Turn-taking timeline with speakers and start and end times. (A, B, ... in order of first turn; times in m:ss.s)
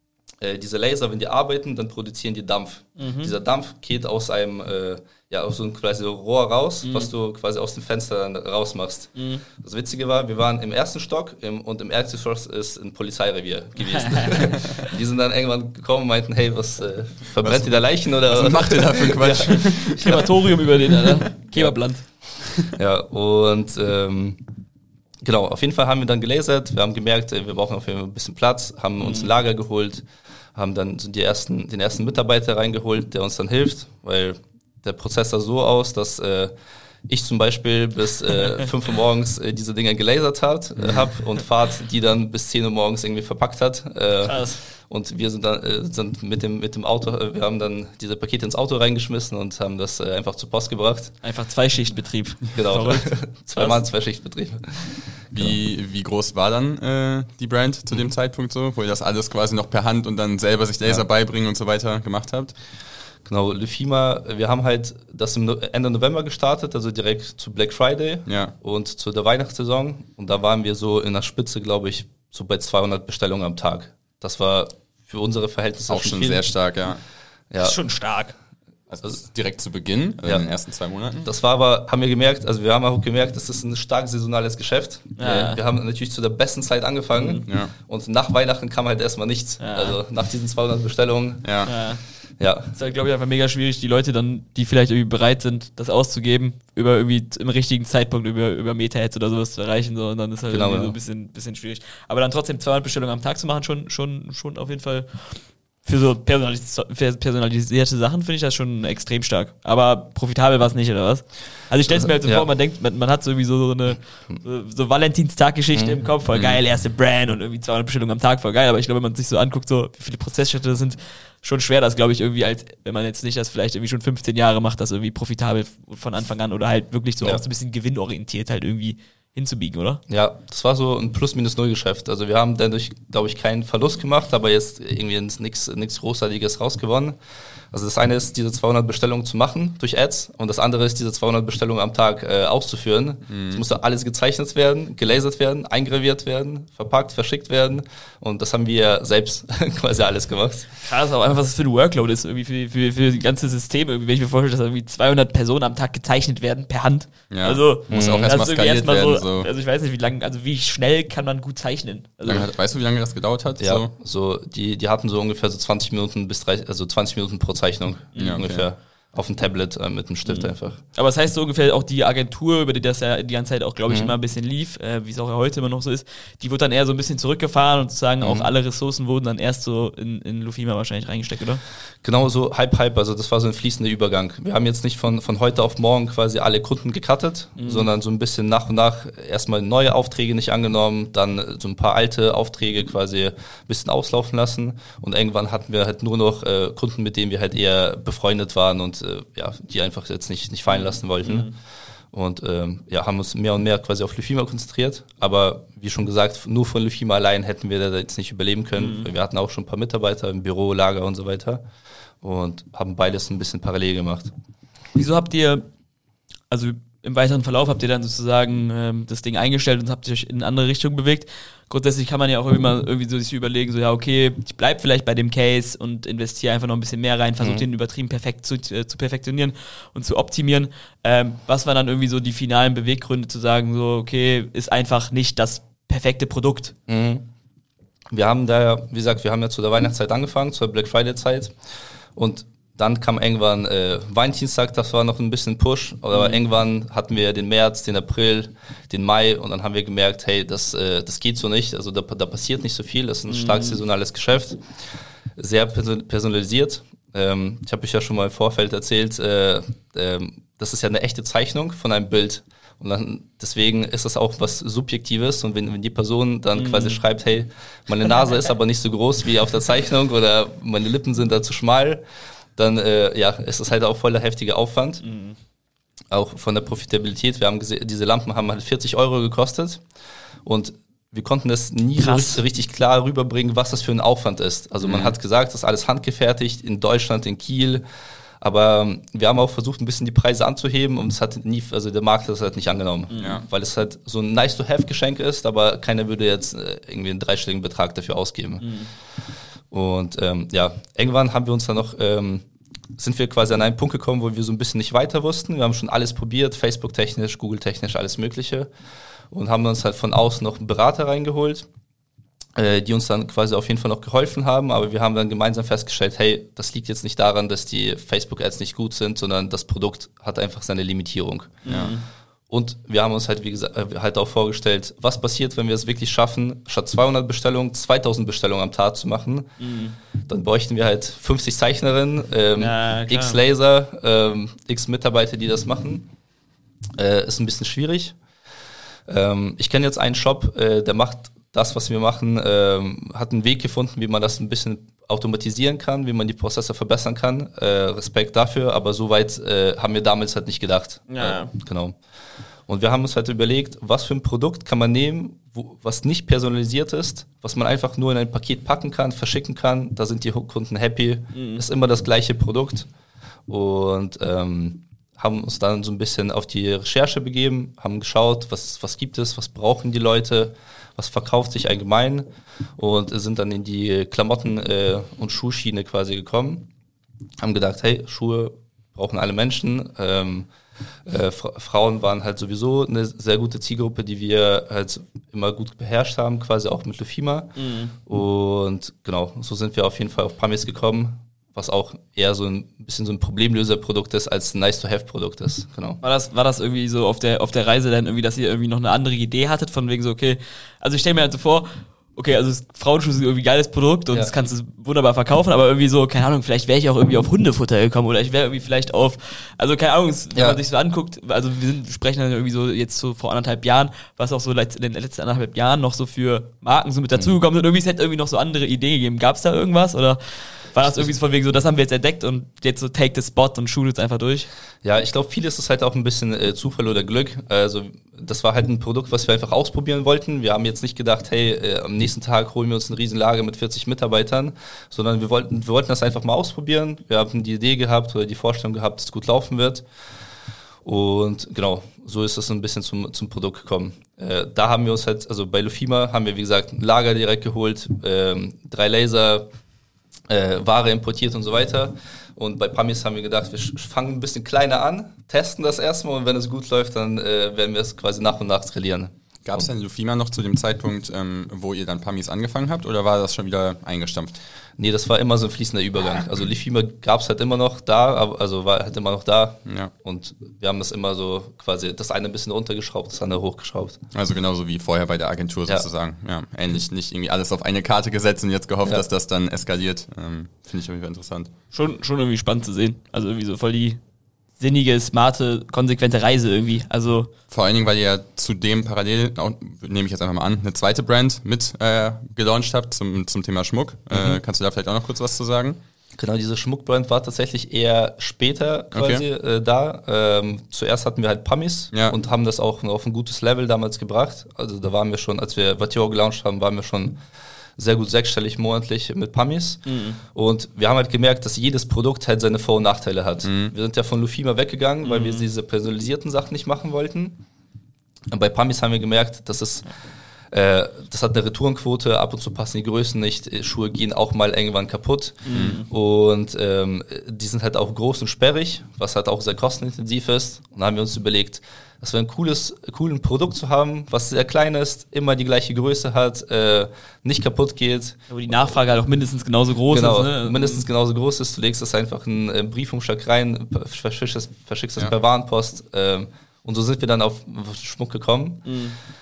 0:00.4-0:20.3 A
0:03.0-0:03.3 B
0:06.8-0:07.1 B
0:09.2-0:09.4 B
0:13.8-0:14.9 B
0:17.4-0:20.2 C
0:19.6-0:22.0 B
0:22.7-0:24.4 A
0:25.2-0:36.5 A
0:29.0-0:29.3 B
0:37.1-0:51.2 A
0:44.2-0:44.6 B
0:51.2-0:53.8 B
0:52.6-0:55.6 A
0:55.4-1:02.6 C
1:03.2-1:16.4 A
1:08.3-1:08.5 C
1:15.9-1:17.0 C
1:17.5-1:17.8 A
1:17.6-1:18.4 B
1:18.9-1:21.3 C
1:21.2-1:31.8 A
1:25.2-1:25.6 B
1:27.2-1:27.5 B
1:27.5-1:27.7 C
1:29.6-1:30.0 B
1:31.4-1:31.7 C
1:31.6-1:32.0 B
1:32.4-1:32.7 A
1:32.8-2:10.0 B
1:40.5-1:41.0 A
1:51.9-1:52.5 A
1:55.7-1:56.0 A
1:56.3-1:56.6 C
2:10.1-2:17.2 A
2:17.7-2:30.7 A
2:23.3-2:23.6 C
2:30.8-2:42.5 B
2:37.3-2:39.5 C
2:37.9-2:38.3 A
2:42.2-2:43.9 C
2:43.6-2:50.8 A
2:48.2-2:48.4 B
2:48.2-2:48.7 C
2:50.3-3:01.6 B
2:53.9-2:54.1 A
2:58.2-2:58.5 A
3:02.0-3:21.5 A
3:07.6-3:07.9 B
3:20.7-3:21.5 B
3:22.1-3:31.6 A
3:28.8-3:29.1 B
3:32.2-3:34.3 A
3:35.0-3:35.7 B
3:36.5-3:56.7 B
3:47.4-3:47.7 A
3:56.9-3:57.3 A
3:58.1-4:01.5 A
4:02.2-4:14.6 A
4:06.1-4:06.4 B
4:13.3-4:13.8 B
4:15.4-4:32.0 A
4:26.6-4:27.0 B
4:32.6-4:35.0 A
4:35.0-4:35.4 B
4:36.1-4:39.8 A
4:40.4-4:47.8 A
4:42.0-4:42.4 B
4:44.8-4:45.2 C
4:48.4-4:58.7 A
4:53.1-4:53.4 B
4:58.6-4:58.9 B
4:59.7-5:02.5 A
5:03.0-5:08.7 A
5:09.3-5:11.7 A
5:12.6-5:21.7 A
5:21.6-5:22.0 B
5:21.7-5:21.9 C
5:22.5-5:29.5 A
5:29.6-5:30.0 B
5:30.3-5:36.1 A
5:32.6-5:33.4 B
5:37.0-5:38.2 A
5:39.1-5:52.0 A
5:51.1-5:51.5 B
5:52.7-6:02.9 A
6:01.3-6:01.6 B
6:03.5-6:12.3 A
6:12.8-6:16.7 A
6:17.4-6:20.5 A
6:21.1-6:36.0 A
6:27.6-6:27.9 B
6:36.0-7:04.5 B
7:04.8-7:19.8 A
7:20.8-7:29.5 A
7:30.3-7:39.7 A
7:39.4-7:44.3 C
7:44.8-7:54.0 A
7:54.1-8:01.5 C
8:01.7-8:04.0 B
8:04.6-8:07.3 B
8:07.5-8:15.8 C
8:16.2-8:27.2 A
8:18.9-8:19.2 C
8:27.8-8:37.4 A
8:29.9-8:30.2 B
8:33.4-8:33.7 C
8:35.0-8:35.5 B
8:38.3-8:39.9 A
8:40.5-8:58.3 A
8:45.4-8:45.9 B
8:45.5-8:45.8 C
8:58.3-9:00.8 B
8:59.9-9:08.6 A
9:08.7-9:09.0 B